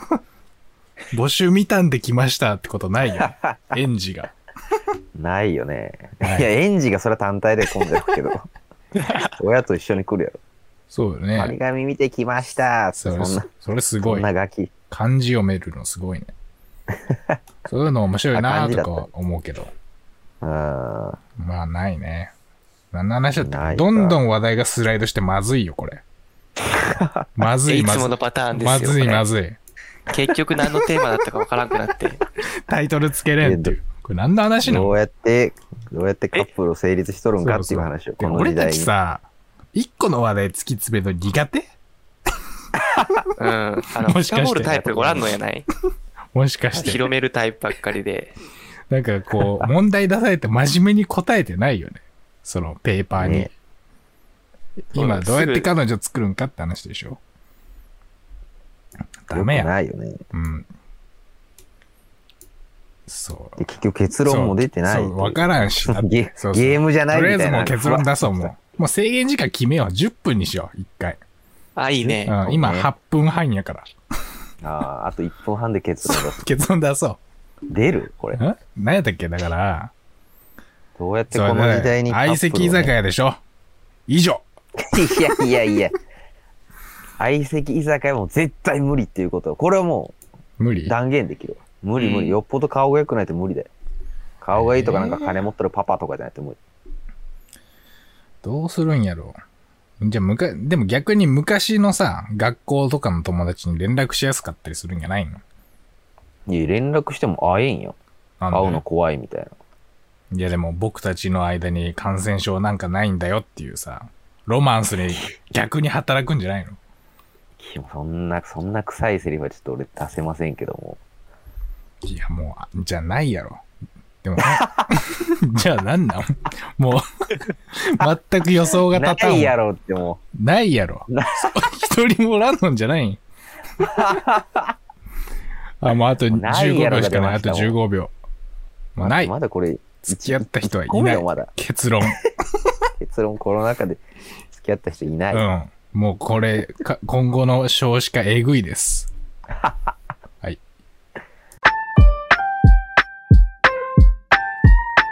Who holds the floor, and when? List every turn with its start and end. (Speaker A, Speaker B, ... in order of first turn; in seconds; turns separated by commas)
Speaker A: 1.1-4.3, Speaker B: 3.1-3.8, Speaker B: 5.2-8.4, Speaker A: 6.2-6.5, Speaker B: 9.3-10.4, Speaker A: 10.9-11.6, Speaker B: 11.3-13.5, Speaker A: 13.0-14.3, Speaker B: 14.0-14.7, Speaker A: 14.9-16.3, Speaker B: 17.1-17.4, Speaker A: 17.7-19.7, Speaker B: 18.3-19.1, Speaker B: 20.4-21.2, Speaker A: 21.4-22.3, Speaker A: 22.9-26.0, Speaker B: 23.4-24.2, Speaker B: 26.9-27.3, Speaker A: 27.4-29.6, Speaker C: 27.7-29.3, Speaker C: 30.1-32.2, Speaker A: 32.7-35.0, Speaker B: 33.4-33.8, Speaker B: 34.6-38.9, Speaker A: 37.4-41.7, Speaker C: 43.4-45.7, Speaker A: 44.0-44.8, Speaker B: 44.7-45.3, Speaker A: 46.3-47.1, Speaker C: 46.7-48.4, Speaker A: 48.9-53.5, Speaker B: 49.4-49.7, Speaker B: 53.1-53.5, Speaker A: 54.9-57.2, Speaker C: 54.9-55.7, Speaker A: 59.2-59.7, Speaker B: 59.3-60.2, Speaker A: 60.3-60.7, Speaker A: 63.1-63.6, Speaker B: 63.6-68.5, Speaker A: 64.2-71.2, Speaker C: 71.8-72.3, Speaker B: 72.0-72.9, Speaker A: 72.2-73.9, Speaker B: 74.6-76.4, Speaker A: 76.0-77.2, Speaker B: 77.7-78.4, Speaker A: 78.3-79.9, Speaker B: 81.0-82.9, Speaker A: 81.3-83.4, Speaker A: 84.1-84.4, Speaker B: 84.9-85.9, Speaker B: 87.2-90.2, Speaker A: 90.6-90.9, Speaker B: 90.8-93.7, Speaker C: 92.0-92.4, Speaker B: 94.4-96.6, Speaker A: 94.5-95.4, Speaker A: 98.4-99.4, Speaker A: 100.0-105.4, Speaker B: 106.5-108.0, Speaker A: 108.4-108.8, Speaker B: 108.5-109.5, Speaker A: 110.3-116.8, Speaker B: 117.6-121.0, Speaker A: 122.0-123.6, Speaker A: 124.2-127.0, Speaker A: 127.7-129.6, Speaker B: 128.9-130.2, Speaker A: 130.3-133.2, Speaker B: 131.1-131.5, Speaker B: 133.8-134.7, Speaker A: 135.8-138.1, Speaker B: 136.3-137.8, Speaker A: 138.9-139.3, Speaker B: 139.0-141.5, Speaker A: 140.0-142.2, Speaker B: 143.0-145.4, Speaker A: 145.3-149.1